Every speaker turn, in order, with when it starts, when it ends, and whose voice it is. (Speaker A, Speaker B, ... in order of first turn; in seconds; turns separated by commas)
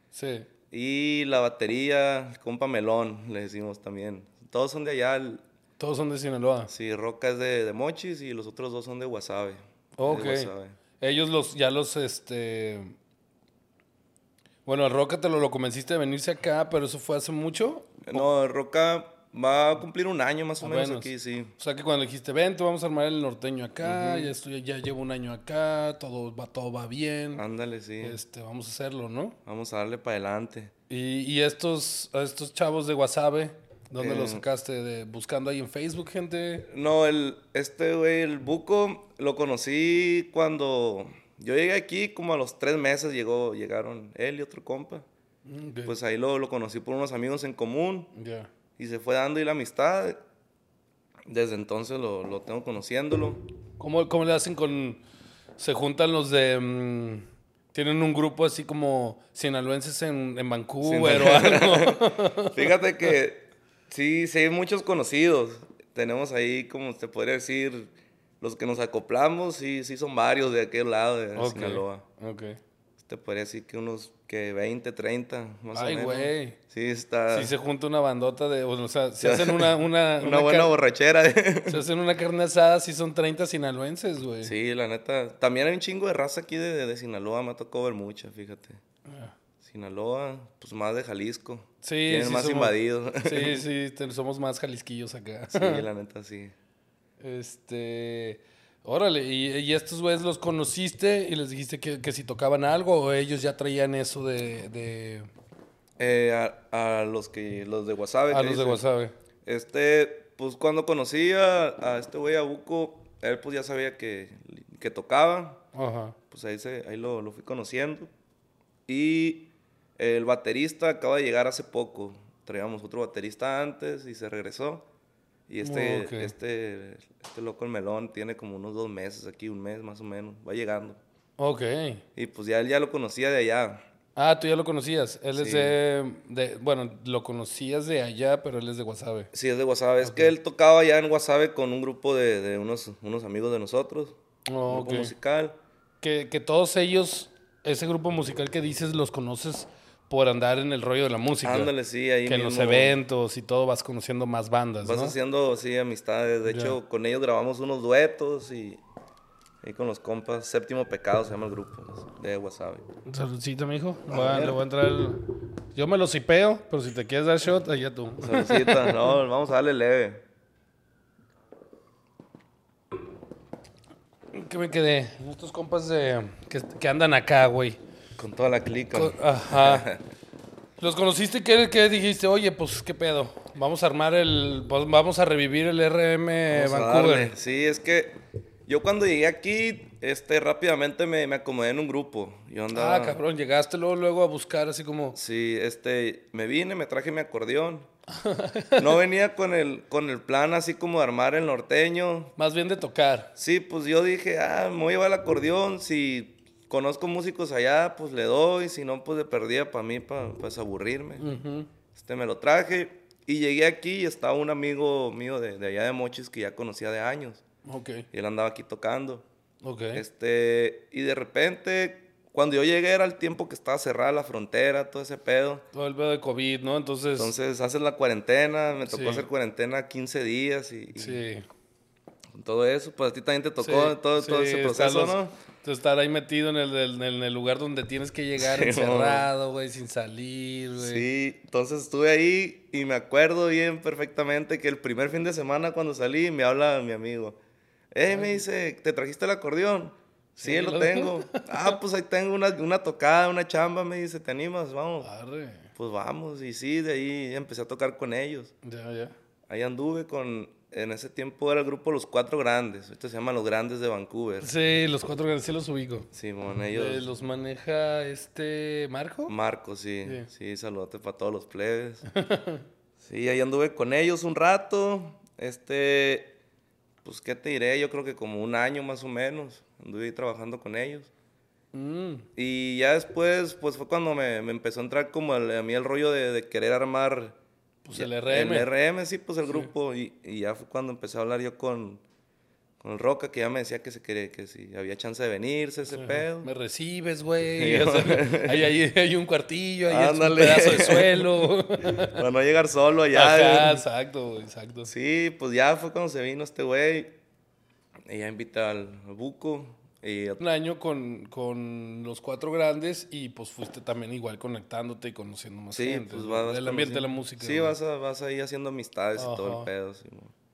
Speaker A: 0.1-0.5, Speaker B: 0.7-5.4, Speaker A: 5.8-6.7, Speaker B: 6.7-10.8, Speaker A: 10.0-12.9, Speaker A: 14.7-18.3, Speaker B: 18.0-21.5, Speaker A: 20.6-27.4, Speaker B: 23.8-24.3, Speaker B: 27.4-28.2, Speaker A: 28.0-29.4, Speaker B: 29.4-30.7, Speaker A: 30.9-36.7, Speaker B: 34.0-34.5, Speaker B: 36.7-45.1, Speaker A: 45.5-45.9, Speaker B: 45.9-48.1, Speaker A: 48.1-48.5, Speaker B: 48.8-50.2, Speaker B: 51.3-53.4, Speaker A: 53.8-55.0, Speaker A: 55.6-62.6, Speaker B: 60.8-72.0, Speaker A: 71.4-72.6, Speaker B: 73.0-77.5, Speaker A: 75.7-76.6, Speaker A: 77.3-80.7, Speaker B: 79.2-81.8, Speaker A: 81.7-84.5, Speaker B: 84.4-88.8, Speaker A: 89.1-89.3, Speaker B: 89.6-93.6, Speaker A: 91.8-95.9, Speaker B: 95.5-96.5, Speaker A: 97.2-105.3, Speaker B: 106.0-108.8, Speaker A: 108.3-109.1, Speaker B: 109.5-115.6, Speaker A: 115.7-116.2, Speaker B: 116.3-118.1, Speaker B: 118.9-124.9, Speaker B: 125.5-131.0, Speaker A: 125.6-126.3, Speaker A: 131.4-132.0, Speaker B: 132.2-133.8, Speaker A: 134.2-139.3, Speaker B: 135.3-135.8, Speaker B: 139.3-144.2, Speaker A: 140.0-140.3, Speaker A: 144.5-145.1, Speaker B: 144.7-145.6, Speaker A: 146.0-151.7, Speaker B: 151.4-153.0, Speaker A: 152.3-155.2, Speaker B: 154.8-158.8, Speaker A: 156.5-156.8, Speaker B: 159.6-162.8, Speaker A: 163.1-169.1, Speaker B: 164.1-164.6, Speaker B: 168.2-170.2, Speaker A: 174.3-177.8, Speaker B: 178.2-180.0, Speaker A: 178.9-179.9, Speaker A: 180.8-187.3, Speaker B: 186.5-193.2, Speaker A: 192.7-195.2, Speaker B: 195.2-197.9, Speaker A: 198.1-199.0, Speaker B: 198.8-202.3, Speaker A: 202.4-203.3, Speaker B: 203.4-211.3, Speaker A: 211.2-211.7, Speaker B: 211.9-217.4, Speaker A: 217.7-218.1, Speaker B: 218.1-219.2, Speaker A: 219.6-220.0, Speaker B: 219.9-225.7, Speaker A: 225.7-227.3, Speaker B: 227.2-231.2, Speaker A: 228.9-229.3, Speaker A: 231.0-231.4, Speaker B: 232.3-235.3, Speaker A: 233.6-241.1, Speaker B: 238.4-239.3, Speaker B: 240.8-247.4, Speaker B: 247.9-255.1, Speaker A: 248.1-248.4, Speaker A: 250.4-251.7, Speaker A: 255.0-255.7, Speaker B: 255.8-258.5, Speaker A: 258.6-259.1, Speaker B: 259.5-264.5, Speaker A: 264.4-266.1, Speaker B: 266.1-267.1, Speaker A: 266.7-269.4, Speaker B: 269.3-272.1, Speaker A: 270.0-270.3, Speaker A: 272.1-272.6, Speaker B: 273.0-276.4, Speaker B: 277.0-281.1, Speaker A: 281.7-282.3, Speaker B: 282.4-287.4, Speaker A: 287.8-288.7, Speaker B: 287.9-292.0, Speaker B: 292.8-296.5, Speaker A: 295.9-302.2, Speaker B: 297.6-298.7, Speaker B: 299.9-303.8, Speaker A: 303.1-304.9, Speaker B: 304.9-307.2, Speaker B: 308.1-310.4, Speaker A: 310.4-317.8, Speaker B: 315.7-320.3, Speaker A: 319.2-319.7